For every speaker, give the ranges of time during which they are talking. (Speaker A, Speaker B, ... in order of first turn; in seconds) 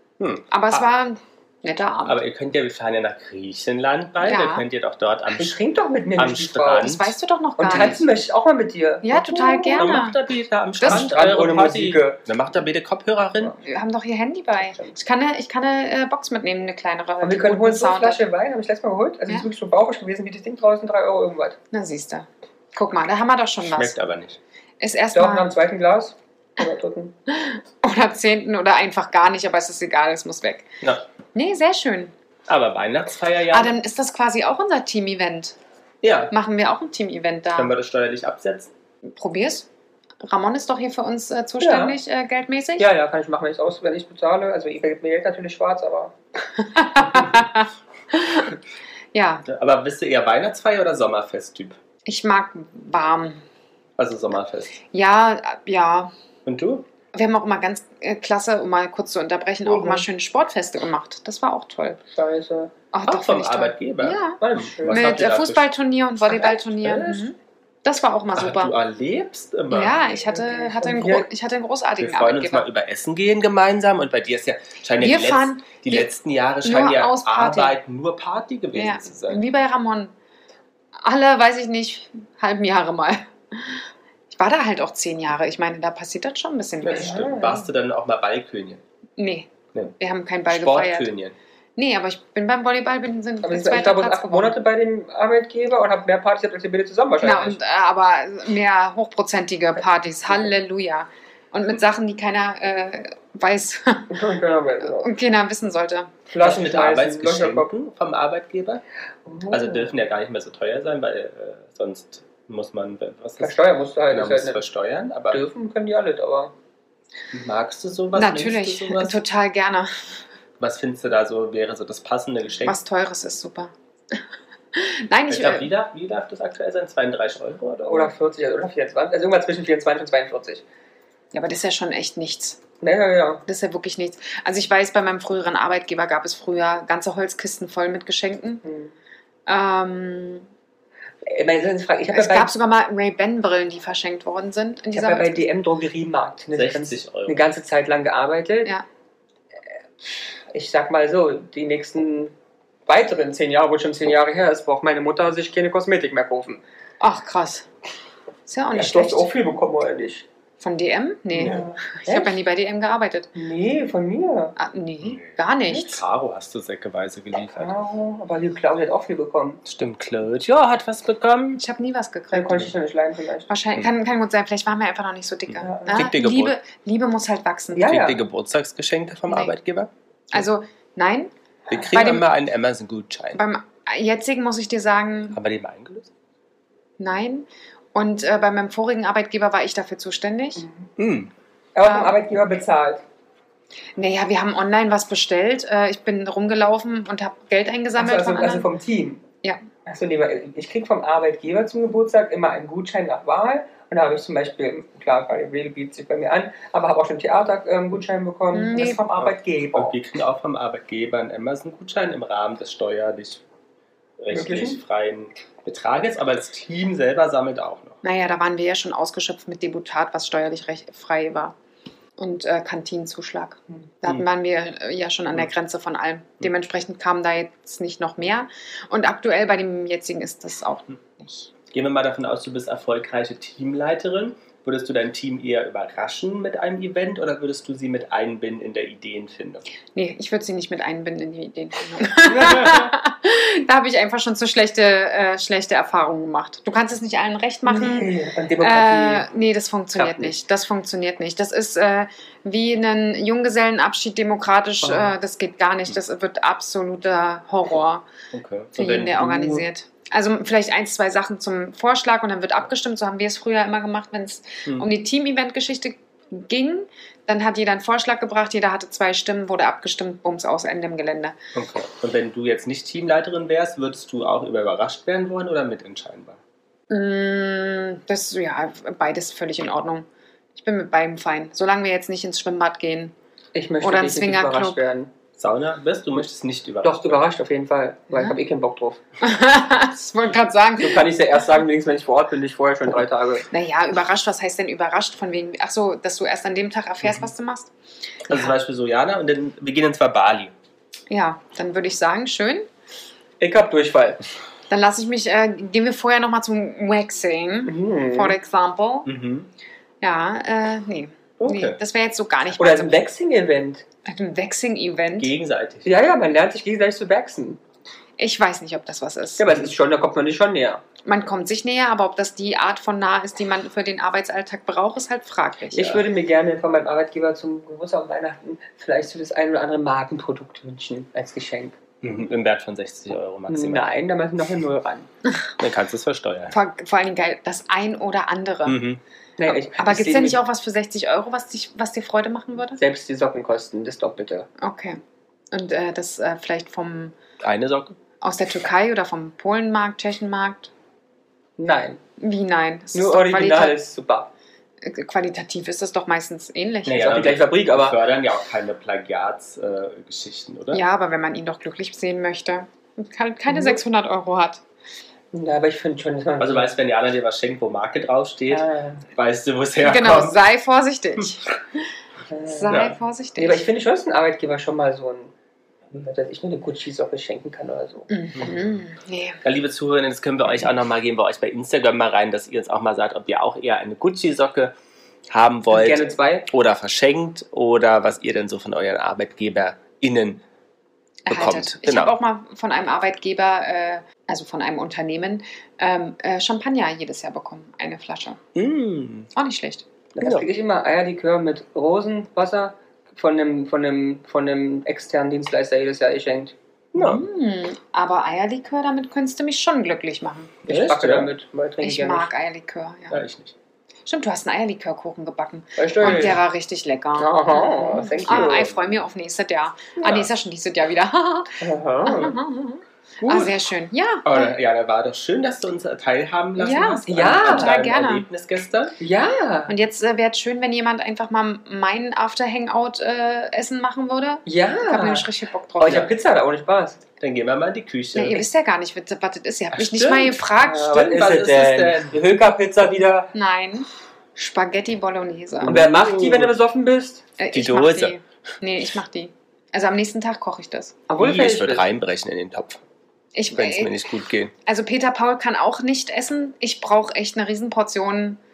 Speaker A: 0.2-0.8, 2.0-5.6, 6.2-7.2, 9.8-13.6, 23.6-24.4, 32.5-33.8, 36.0-36.3, 37.6-38.7, 49.5-51.8, 54.0-54.8, 56.5-56.9, 63.1-65.7, 68.3-70.0, 72.0-79.4, 86.8-88.8, 90.5-91.4, 106.4-108.8, 109.5-113.6, 114.1-115.4, 117.3-119.2, 120.6-122.8, 125.3-128.1, 146.5-147.5, 165.0-167.7, 169.7-171.6, 175.5-176.6, 177.9-180.4, 181.7-183.4, 185.3-186.1, 191.0-191.3, 209.2-213.4, 214.2-218.0, 231.7-239.7, 242.2-242.9, 258.3-259.7, 271.6-276.4, 285.4-287.2, 298.3-300.5, 309.1-309.5, 311.4-311.8, 315.2-315.9, 332.0-333.9, 335.6-336.6, 338.7-339.0, 347.4-348.0, 356.9-360.8, 366.4-370.4, 372.7-372.9, 378.4-378.7, 379.4-384.7, 385.3-390.4, 391.3-392.2, 398.6-399.3, 400.2-400.5, 406.9-407.3, 410.7-411.3, 413.1-413.6, 416.0-416.4, 418.3-418.9, 420.0-420.3, 423.2-423.5, 424.2-429.0, 437.2-438.5, 439.7-442.2, 445.6-446.5, 447.5-448.1, 451.2-452.8, 453.6-454.5
Speaker B: 0.5-2.2, 4.2-4.7, 6.8-8.0, 9.0-10.2, 10.8-11.1, 13.6-18.2, 21.7-24.0, 24.8-25.5, 27.3-30.7, 31.4-32.1, 33.5-35.6, 36.3-37.7, 39.1-39.7, 40.2-42.9, 46.6-48.5, 49.1-49.5, 52.1-53.4, 54.9-56.1, 57.1-62.0, 62.9-68.8, 69.7-72.7, 75.0-76.1, 76.6-77.8, 78.7-80.1, 81.0-87.3, 89.2-91.1, 91.8-94.6, 97.2-104.2, 104.9-106.1, 118.1-120.2, 122.7-124.2, 124.7-125.7, 131.3-132.6, 133.5-138.6, 139.5-140.5, 142.1-145.4, 157.0-157.7, 158.5-159.3, 160.6-163.3, 164.6-166.0, 171.6-172.7, 173.5-177.9, 179.3-179.6, 180.3-181.3, 181.9-182.3, 183.3-185.4, 187.0-190.7, 191.8-192.2, 194.0-198.7, 208.5-209.0, 218.0-221.6, 222.2-231.5, 239.9-258.1, 258.8-271.4, 276.9-283.1, 283.8-284.8, 289.2-291.2, 293.5-297.7, 298.3-298.5, 301.1-302.7, 304.7-309.1, 310.0-312.9, 314.1-315.3, 318.2-319.7, 321.0-326.0, 336.5-338.8, 339.5-342.8, 344.6-345.0, 345.5-347.1, 348.2-350.7, 352.2-353.8, 354.8-357.1, 360.7-364.6, 369.8-371.9, 372.4-373.6, 378.1-379.4, 391.3-398.4, 399.4-399.9, 407.0-410.6, 411.8-413.2, 414.1-424.5, 426.6-428.3, 429.7-436.1, 438.1-440.9, 443.3-445.8, 447.4-451.0, 453.4-454.0, 454.6-458.4
Speaker C: 5.3-7.0, 7.6-10.0, 10.8-12.2, 14.6-14.9, 17.2-21.6, 25.1-27.1, 41.6-42.0, 42.8-46.1, 59.6-60.1, 62.1-62.7, 64.4-65.2, 66.3-67.2, 70.0-71.3, 86.9-87.7, 93.4-97.6, 104.1-105.1, 106.3-107.7, 109.3-109.9, 113.4-114.6, 115.3-116.5, 127.9-130.6, 132.8-133.4, 138.6-138.9, 141.2-142.5, 144.9-148.7, 150.0-152.3, 152.9-156.6, 158.7-160.3, 161.4-162.4, 163.3-164.6, 167.6-169.6, 172.3-173.5, 175.6-176.1, 177.7-178.2, 190.6-190.9, 191.8-193.0, 198.0-199.2, 199.9-209.9, 214.3-214.8, 247.7-249.3, 254.8-255.1, 283.5-285.1, 286.8-289.0, 290.8-293.5, 303.4-304.2, 307.7-308.4, 312.6-313.8, 315.8-317.6, 319.4-320.8, 325.7-331.8, 333.5-335.1, 339.4-340.4, 342.8-344.5, 351.6-352.0, 352.9-354.3, 357.0-358.0, 363.5-363.8, 365.3-366.7, 368.5-369.1, 372.3-372.9, 373.4-375.3, 376.0-378.1, 385.7-386.5, 400.2-406.6, 410.6-412.3, 415.8-416.4, 417.2-418.7, 421.6-422.4, 427.1-427.7, 429.0-429.7, 434.5-437.0, 440.6-443.3, 445.7-447.3, 451.1-451.8